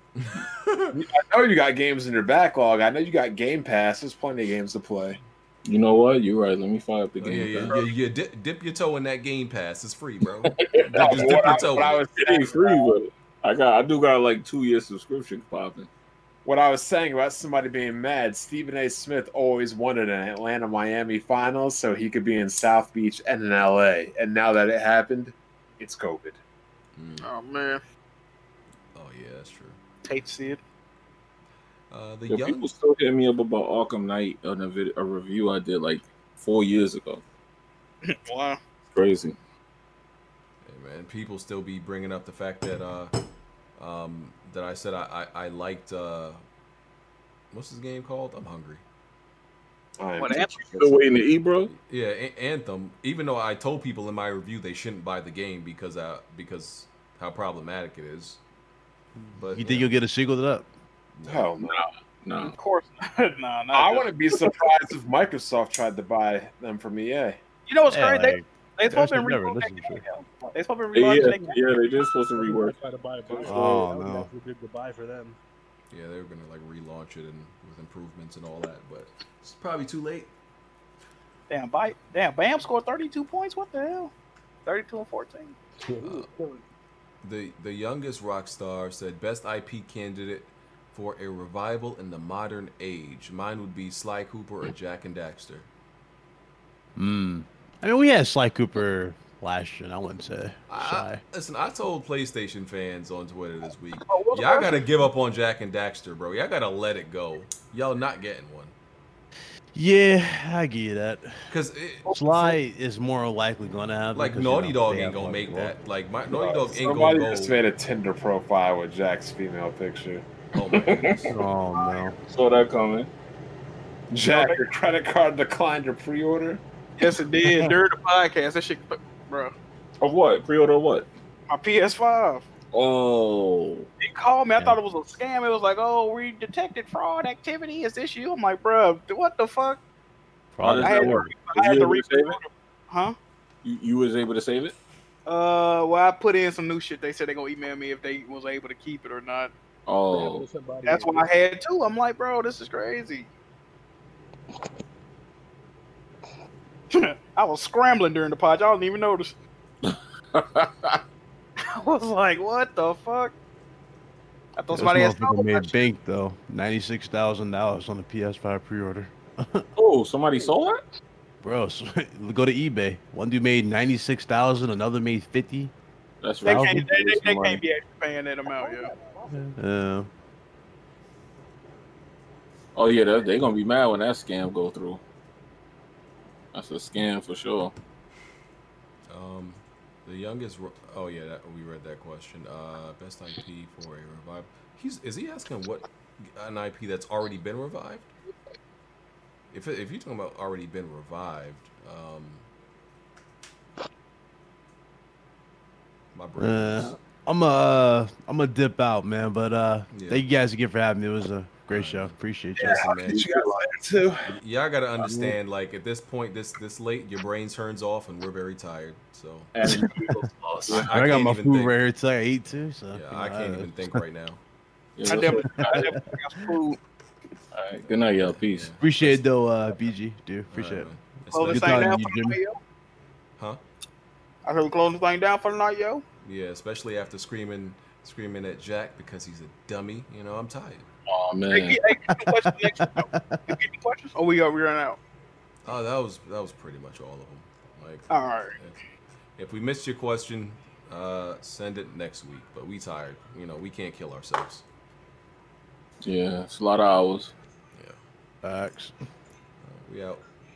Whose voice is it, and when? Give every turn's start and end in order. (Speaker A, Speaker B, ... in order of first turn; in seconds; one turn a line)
Speaker A: 0.1-1.0
Speaker B: 0.9-5.2
Speaker C: 5.6-7.8
Speaker A: 7.2-12.0
Speaker C: 10.7-15.9
Speaker B: 10.9-12.9
Speaker B: 16.4-26.4
Speaker A: 26.9-27.3
Speaker D: 27.2-27.8
Speaker A: 28.9-29.8
Speaker D: 30.1-30.6
Speaker A: 31.9-32.6
Speaker C: 32.3-37.2
Speaker D: 38.0-38.6
Speaker C: 38.9-39.4
Speaker A: 40.6-43.1
Speaker A: 43.8-46.4
Speaker A: 47.5-48.8
Speaker B: 50.0-51.0
Speaker D: 50.2-50.7
Speaker C: 50.7-51.7
Speaker A: 51.7-58.4
Speaker E: 59.2-60.7
Speaker A: 59.3-59.9
Speaker A: 61.2-61.5
Speaker B: 61.3-61.8
Speaker C: 61.6-62.5
Speaker D: 62.5-64.5
Speaker B: 63.7-67.4
Speaker D: 67.7-71.6
Speaker E: 67.9-70.0
Speaker C: 70.9-72.8
Speaker F: 72.4-75.3
Speaker C: 73.4-73.8
Speaker E: 73.5-74.3
Speaker A: 75.9-80.3
Speaker D: 81.5-84.1
Speaker D: 84.6-86.4
Speaker A: 87.2-95.7
Speaker E: 97.0-101.2
Speaker A: 100.7-108.7
Speaker D: 104.0-105.1
Speaker E: 109.7-111.4
Speaker A: 111.5-112.1
Speaker D: 112.1-112.5
Speaker E: 112.1-115.7
Speaker A: 114.1-117.6
Speaker B: 116.3-120.2
Speaker A: 120.5-121.3
Speaker C: 120.7-121.3
Speaker E: 121.3-122.2
Speaker C: 122.3-123.1
Speaker B: 124.1-126.6
Speaker D: 124.2-124.6
Speaker D: 127.0-129.5
Speaker C: 130.0-131.1
Speaker D: 131.5-132.4
Speaker C: 132.7-133.9
Speaker D: 134.0-139.8
Speaker E: 140.5-141.3
Speaker C: 140.6-142.4
Speaker D: 140.8-143.2
Speaker C: 143.6-144.7
Speaker D: 145.2-149.5
Speaker C: 149.9-150.4
Speaker F: 150.1-151.3
Speaker D: 150.8-153.3
Speaker D: 156.9-159.3
Speaker C: 159.9-161.0
Speaker D: 161.6-163.3
Speaker D: 164.6-165.8
Speaker E: 164.7-169.7
Speaker C: 169.8-170.8
Speaker E: 171.4-175.7
Speaker C: 176.2-177.6
Speaker D: 176.4-178.9
Speaker E: 176.4-176.9
Speaker E: 179.3-180.1
Speaker C: 182.8-185.0
Speaker C: 186.5-187.7
Speaker A: 189.1-198.1
Speaker A: 199.5-202.4
Speaker A: 206.1-206.9
Speaker E: 206.4-213.2
Speaker A: 209.9-210.2
Speaker A: 211.7-213.4
Speaker B: 212.6-214.3
Speaker A: 214.2-219.5
Speaker C: 219.6-220.9
Speaker B: 219.6-220.1
Speaker A: 220.7-221.8
Speaker E: 220.7-224.0
Speaker A: 222.9-224.4
Speaker C: 225.0-225.9
Speaker D: 225.1-226.8
Speaker E: 225.6-225.9
Speaker C: 227.5-228.7
Speaker A: 228.3-229.2
Speaker E: 228.8-232.4
Speaker A: 230.5-232.0
Speaker D: 231.3-232.6
Speaker D: 234.4-236.0
Speaker A: 236.2-240.8
Speaker C: 241.1-241.8
Speaker D: 241.5-245.0
Speaker E: 242.1-243.5
Speaker A: 245.6-248.8
Speaker D: 248.1-248.6
Speaker A: 249.4-254.6
Speaker C: 256.0-257.3
Speaker E: 258.4-258.9
Speaker A: 259.6-260.2